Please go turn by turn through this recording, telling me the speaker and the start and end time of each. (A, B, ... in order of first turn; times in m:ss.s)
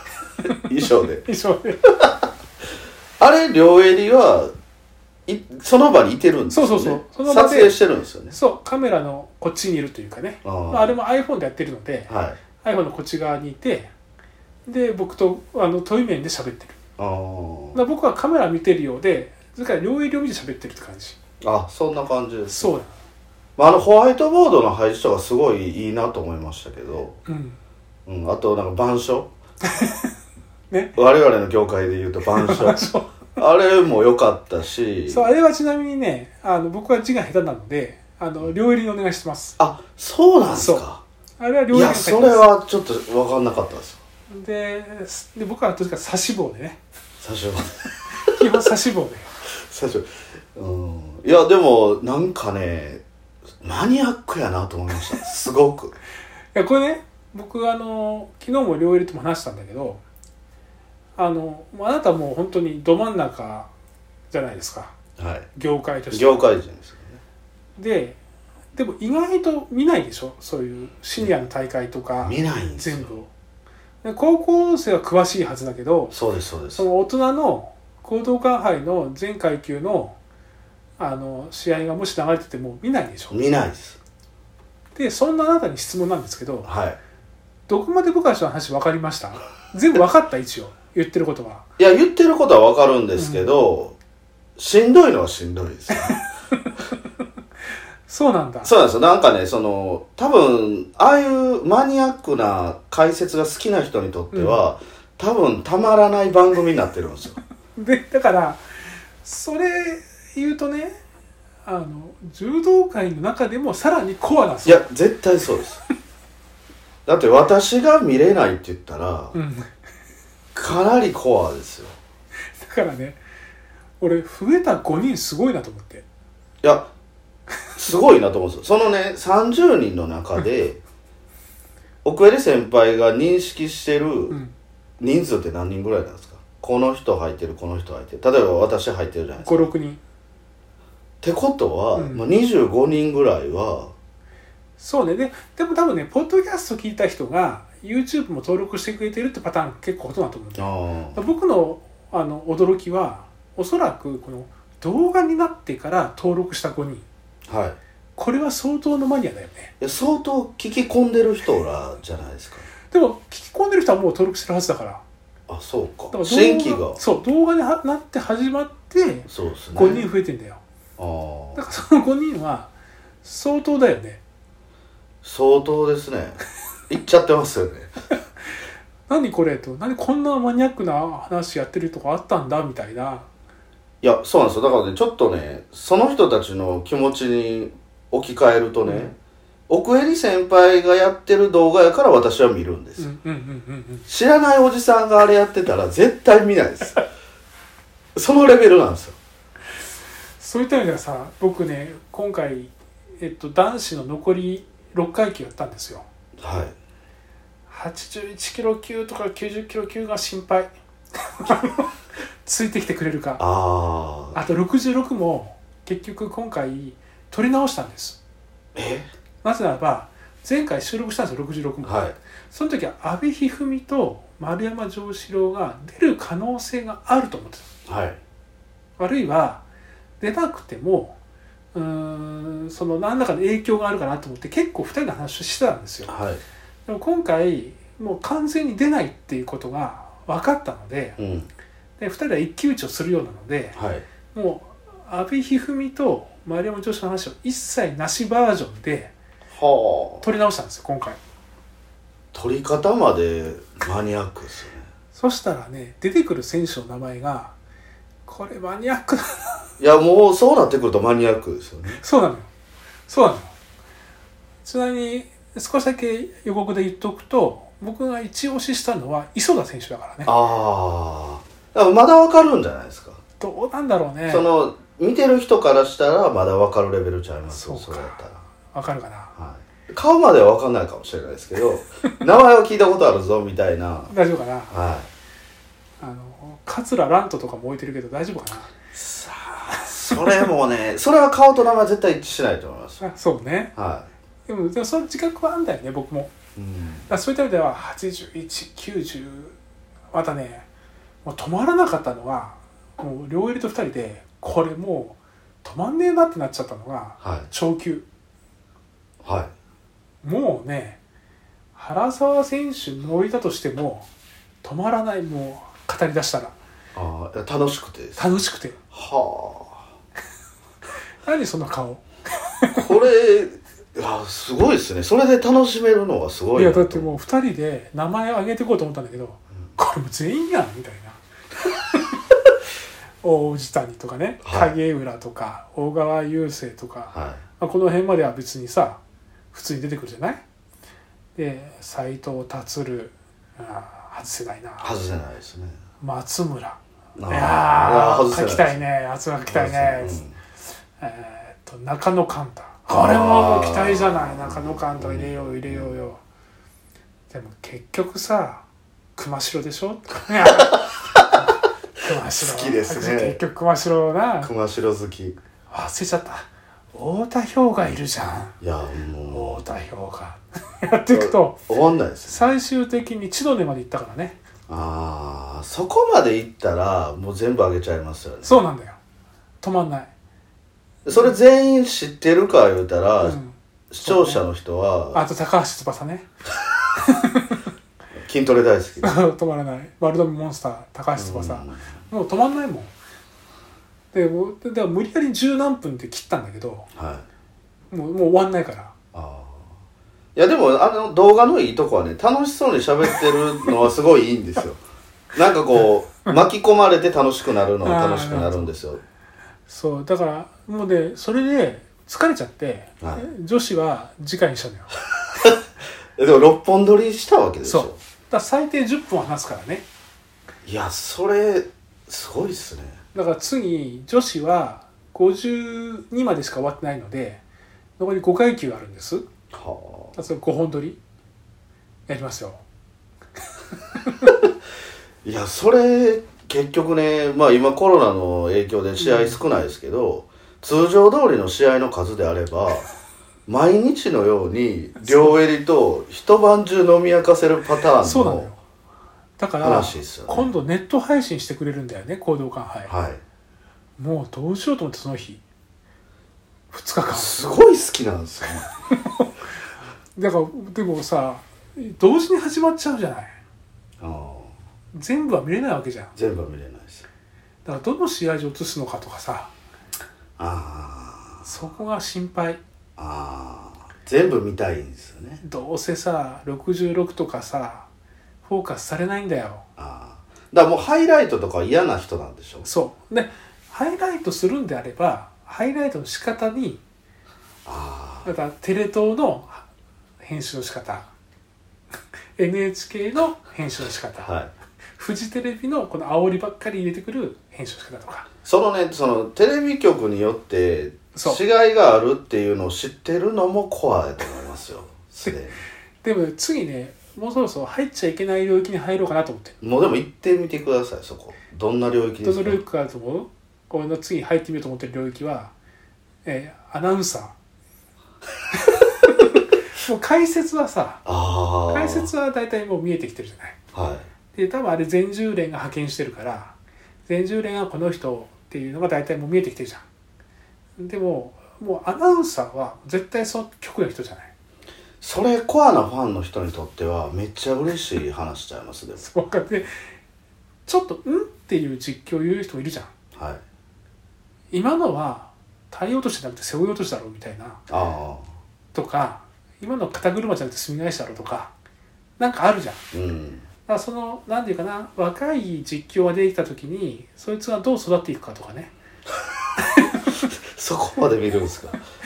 0:00.5-0:01.2 A
0:01.2-0:01.8 B
0:01.8-0:02.2 A
0:03.2-0:04.5 A
0:05.3-0:08.3 A
0:06.5-0:07.8 B
0:08.3-0:12.1 B
0:10.4-0:10.9 A
0:12.1-0:12.4 A
0:12.6-0:13.9 B
0:14.6-0:16.8 B
0:17.0-0:17.8 A
0:17.7-0:21.2 B
0:21.4-0:22.7 A
0:22.5-0:22.9 B
0:23.6-0:27.2 A
0:27.3-0:27.6 B
0:28.0-0:29.3 A
0:29.7-0:30.1 B
0:30.7-0:31.0 B
0:31.0-0:35.2 A
0:32.4-0:33.2 B
0:35.1-0:39.6 B
0:39.6-0:41.0 A
0:40.5-0:40.8 B
0:41.4-0:42.4 B
0:41.7-0:44.0 A
0:44.3-0:46.8 B
0:47.2-0:48.3 A
0:48.2-0:49.3 B
0:49.5-0:53.0 A
0:53.6-0:55.9 A
0:56.5-1:00.0 B
1:01.2-1:03.7 B
1:04.3-1:04.9 B
1:05.2-1:05.5 A
1:05.5-1:06.4 B
1:06.1-1:07.2 A
1:07.8-1:08.2 B
1:08.7-1:13.3 B
1:12.2-1:13.1 A
1:14.0-1:16.2 B
1:16.1-1:16.9 A
1:16.7-1:20.2 B
1:21.0-1:23.4 B
1:23.3-1:24.0 A
1:25.0-1:26.7 B
1:26.6-1:27.0 A
1:27.7-1:31.6 B
1:31.8-1:34.0 A
1:33.2-1:33.5 B
1:34.6-1:36.2 A
1:38.1-1:38.7 B
1:38.6-1:47.4 A
1:44.3-1:44.6 B
1:47.8-1:48.6 B
1:49.2-1:51.0 B
1:51.6-1:54.9 B
1:54.6-1:55.8 A
1:57.0-1:59.3 A
1:59.3-1:59.7 B
2:00.5-2:02.0 A
2:02.6-2:03.2 B
2:04.0-2:06.0 B
2:06.6-2:06.9 A
2:07.8-2:10.8 A
2:12.0-2:14.3 A
2:15.0-2:19.7 A
2:19.4-2:20.0 B
2:21.2-2:23.9 A
2:21.9-2:22.2 B
2:24.8-2:37.0 B
2:30.6-2:31.2 A
2:37.5-2:37.8 A
2:38.2-2:39.7 B
2:39.8-2:42.7 A
2:42.9-2:45.0 B
2:45.5-2:47.0 A
2:46.1-2:50.6 B
2:49.3-2:50.1 A
2:51.0-2:51.6 A
2:51.5-2:52.7 B
2:53.2-2:54.2 B
2:55.2-2:57.9 A
2:59.1-3:03.3 B
3:04.0-3:09.1 A
3:08.8-3:09.1 B
3:09.7-3:13.1 A
3:13.0-3:14.1 B
3:14.1-3:17.0 A
3:18.1-3:19.2 A
3:20.4-3:26.0 B
3:26.4-3:26.7 A
3:27.7-3:30.7 B
3:31.3-3:31.9 B
3:32.4-3:33.4 B
3:33.4-3:34.4 A
3:34.3-3:38.2 B
3:38.7-3:39.1 A
3:39.4-3:47.7 B
3:41.8-3:42.2 A
3:47.9-3:48.2 A
3:49.0-3:49.6 B
3:50.2-3:51.2 B
3:51.7-3:56.1 B
3:56.0-3:56.4 A
3:56.9-4:01.2 B
4:01.2-4:01.5 A
4:02.0-4:03.8 B
4:03.8-4:04.0 A
4:04.3-4:09.1 B
4:09.5-4:10.2 A
4:10.2-4:11.2 B
4:12.3-4:14.9 A
4:15.1-4:17.5 B
4:18.2-4:19.6 B
4:19.8-4:22.0 A
4:22.0-4:22.5 B
4:23.1-4:23.5 B
4:24.6-4:30.3 B
4:30.2-4:33.2 A
4:33.4-4:34.4 B
4:34.3-4:38.4 A
4:37.5-4:38.2 B
4:38.7-4:39.3 B
4:39.4-4:44.1 A
4:44.1-4:44.8 B
4:44.7-4:45.1 A
4:46.0-4:48.7 B
4:48.9-4:53.0 A
4:53.0-4:53.7 B
4:53.7-4:54.1 A
4:54.5-4:56.3 B
4:56.6-4:57.1 A
4:57.1-4:59.6 B
5:00.1-5:00.6 B
5:01.2-5:08.0 B
5:07.2-5:07.5 A
5:09.2-5:09.5 A
5:10.2-5:11.0 B
5:11.7-5:14.1 B
5:14.6-5:16.5 B
5:16.9-5:18.3 A
5:18.2-5:18.8 B
5:18.9-5:19.8 A
5:21.2-5:22.9 B
5:22.7-5:27.1 A
5:26.5-5:31.2 B
5:33.2-5:39.0 B
5:34.4-5:34.7 A
5:37.1-5:37.4 A
5:39.5-5:40.4 B
5:41.4-5:44.9 B
5:44.8-5:45.8 A
5:46.0-5:50.2 B
5:47.2-5:48.8 A
5:49.4-5:50.3 A
5:51.0-5:56.2 B
5:52.9-5:56.0 A
5:57.3-5:58.6 B
5:59.2-6:00.9 B
6:00.5-6:01.4 A
6:02.0-6:04.5 B
6:02.3-6:03.4 A
6:04.4-6:05.4 A
6:05.7-6:08.5 B
6:08.6-6:09.6 A
6:09.3-6:11.6 B
6:11.1-6:12.5 A
6:12.3-6:14.4 B
6:14.7-6:18.6 A
6:18.4-6:19.0 B
6:19.6-6:20.1 B
6:21.0-6:23.4 A
6:23.2-6:24.4 B
6:23.9-6:25.2 A
6:25.1-6:26.3 B
6:27.0-6:27.6 B
6:28.2-6:29.2 A
6:29.0-6:32.9 B
6:31.2-6:31.8 A
6:34.1-6:36.9 B
6:36.9-6:37.2 A
6:37.9-6:38.9 B
6:39.1-6:39.7 A
6:40.3-6:44.8 A
6:45.3-6:49.0 A
6:47.8-6:48.7 B
6:49.7-6:54.9 B
6:53.0-6:53.3 A
6:56.2-6:58.0 A
6:57.6-6:59.8 B
7:00.6-7:03.0 A
7:03.1-7:07.4 B
7:08.0-7:09.3 B
7:09.5-7:10.1 A
7:10.1-7:11.0 B
7:12.1-7:12.6 B
7:14.0-7:14.3 B
7:15.2-7:22.9 A
7:19.0-7:19.4 B
7:23.5-7:28.5 A
7:25.0-7:25.4 B
7:28.0-7:28.6 B
7:29.4-7:32.9 B
7:29.6-7:30.5 A
7:32.9-7:33.2 A
7:34.0-7:35.4 B
7:36.7-7:37.4 B
7:37.1-7:38.7 A
7:40.2-7:43.4 B
7:44.0-7:44.5 A
7:44.9-7:46.1 B
7:46.2-7:47.0 A
7:47.6-7:49.5 B
7:50.4-7:51.4 A
7:51.4-7:52.6 B
7:53.0-7:55.4 A
7:55.4-7:57.9 B
7:58.4-7:59.6 B
7:59.8-8:02.6 A
8:02.6-8:06.8 B
8:07.6-8:08.3 A
8:08.2-8:09.6 B
8:10.2-8:11.1 B
8:12.4-8:14.3 B
8:14.2-8:14.5 A
8:15.0-8:18.3 B
8:18.4-8:25.6 A
8:21.1-8:21.4 B
8:26.0-8:29.6 B
8:29.6-8:32.6 A
8:32.2-8:35.5 B
8:36.2-8:37.3 B
8:38.5-8:41.0 B
8:41.0-8:42.1 A
8:41.7-8:43.6 B
8:43.7-8:44.0 A
8:44.3-8:46.5 B
8:47.1-8:49.8 B
8:50.8-8:54.3 B
8:55.0-8:59.0 A
8:59.0-8:59.7 B
9:00.6-9:02.9 B
9:03.1-9:03.4 A
9:04.5-9:07.6 B
9:07.7-9:08.3 A
9:08.7-9:11.5 B
9:12.2-9:12.8 B
9:12.9-9:13.4 A
9:13.6-9:18.7 B
9:20.2-9:21.8 A